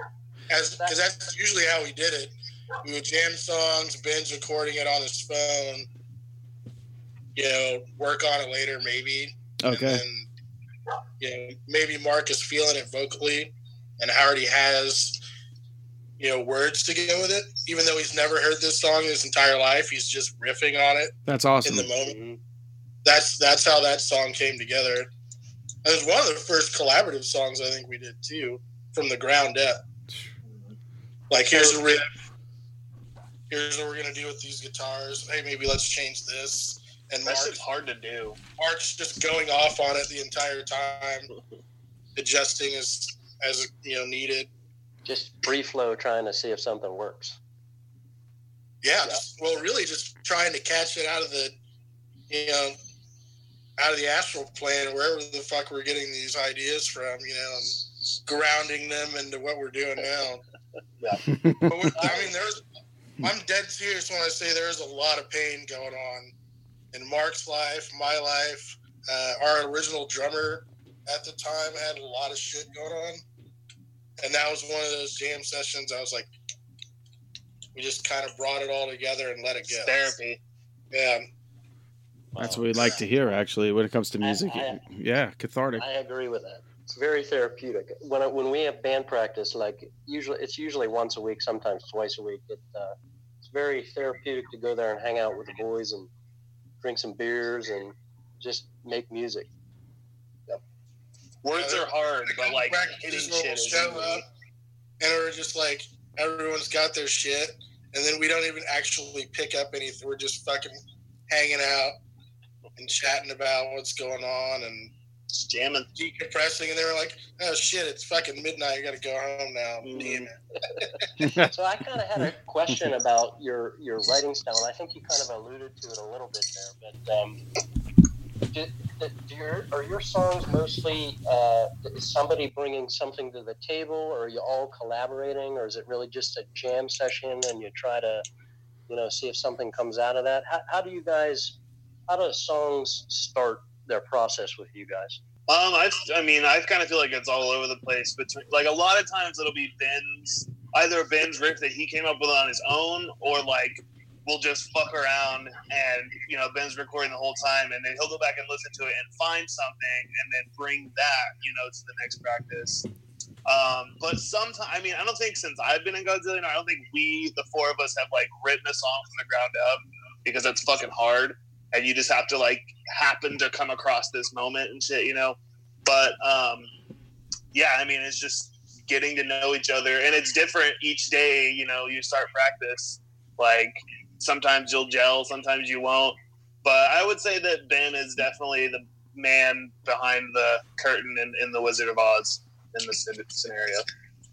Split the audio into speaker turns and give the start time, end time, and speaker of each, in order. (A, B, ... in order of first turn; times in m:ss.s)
0:00.5-0:05.9 A
0:07.3-0:10.3 A
0:09.6-0:10.0 B
0:11.2-0:15.2 A
0:16.2-0:22.1 A
0:21.2-0:21.9 B
0:22.0-0:22.4 C
0:23.0-0:25.1 A
0:25.8-0:29.8 A
0:30.4-0:30.7 D
0:31.3-0:32.0 A
0:31.5-0:31.8 D
0:33.5-0:37.6 A
0:37.2-0:38.4 D
0:38.6-0:41.3 A
0:42.2-0:44.5 A
0:45.0-0:47.4 C
0:48.8-0:51.6 A
0:52.3-0:52.8 A
0:53.8-1:00.4 A
1:01.3-1:01.9 B
1:01.7-1:02.6 A
1:02.0-1:02.4 C
1:03.2-1:06.3 A
1:06.9-1:13.2 A
1:14.2-1:16.3 A
1:17.7-1:20.2 A
1:19.6-1:20.4 D
1:20.9-1:21.2 A
1:22.3-1:22.6 C
1:22.4-1:25.8 B
1:24.2-1:24.8 C
1:25.8-1:36.1 C
1:36.8-1:39.5 C
1:41.4-1:44.2 D
1:41.6-1:44.2 A
1:45.0-1:50.8 A
1:51.3-1:52.0 A
1:52.8-1:54.9 A
1:55.3-1:55.9 D
1:56.0-2:00.3 A
1:59.8-2:00.3 D
2:01.2-2:01.5 B
2:01.5-2:07.4 C
2:08.5-2:18.2 C
2:18.9-2:21.6 C
2:22.1-2:25.2 C
2:25.5-2:42.8 D
2:43.5-2:56.7 D
2:57.5-3:13.8 D